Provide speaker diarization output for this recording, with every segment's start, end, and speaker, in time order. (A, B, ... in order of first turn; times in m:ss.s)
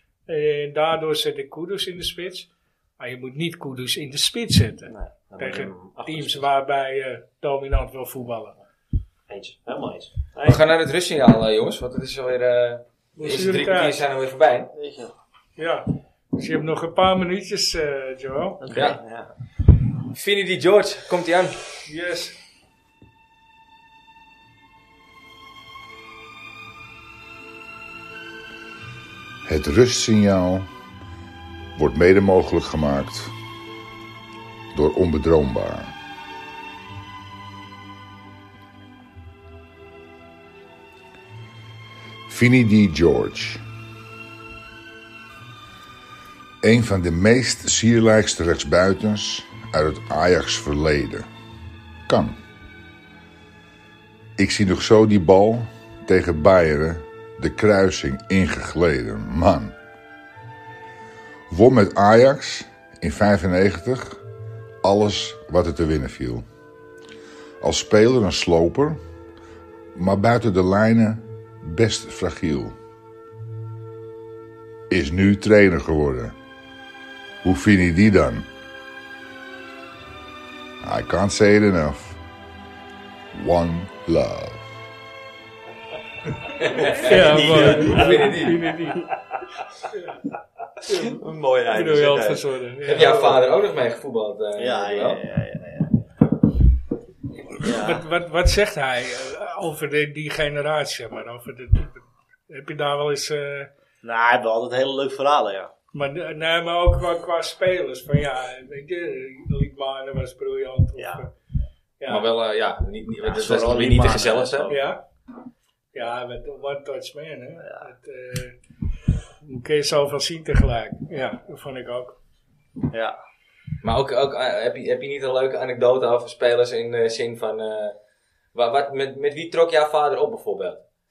0:00.3-0:08.6 A
0:04.9-0:06.5 B
0:09.3-0:10.6 B
0:10.4-0:14.7 C
0:13.2-0:14.0 A
0:14.7-0:15.1 D
0:15.6-0:18.6 A
0:18.6-0:19.0 D
0:18.7-0:19.0 C
0:19.0-0:19.3 B
0:20.1-0:21.6 C
0:21.8-0:22.4 A
0:29.4-0:30.7 E
0:31.8-0:33.3 E
0:34.7-0:35.9 E
0:42.3-0:43.6 E
0:46.6-0:51.3 E
0:52.1-0:52.4 E
0:54.4-0:59.7 E
1:01.5-1:04.2 E
1:04.8-1:06.4 E
1:07.6-1:09.0 E
1:09.9-1:12.7 E
1:14.9-1:16.3 E
1:17.4-1:18.4 E
1:20.8-1:22.2 E
1:23.3-1:24.6 E
1:26.6-1:28.7 C
1:26.7-1:28.3 B
1:26.8-1:29.1 A
1:29.9-1:30.2 A
1:30.9-1:33.4 A
1:30.9-1:32.4 B
1:32.8-1:35.2 C
1:34.6-1:36.0 D
1:37.6-1:38.0 D
1:37.7-1:43.7 A
1:44.0-1:45.7 D
1:45.9-1:51.3 A
1:51.0-1:51.2 D
1:52.0-1:52.3 A
1:52.1-1:54.7 C
1:53.2-1:54.8 D
1:54.7-1:55.0 A
1:55.9-1:58.6 A
1:57.6-1:57.9 D
1:59.4-2:02.2 A
2:02.9-2:03.2 D
2:03.8-2:07.9 C
2:08.5-2:10.8 C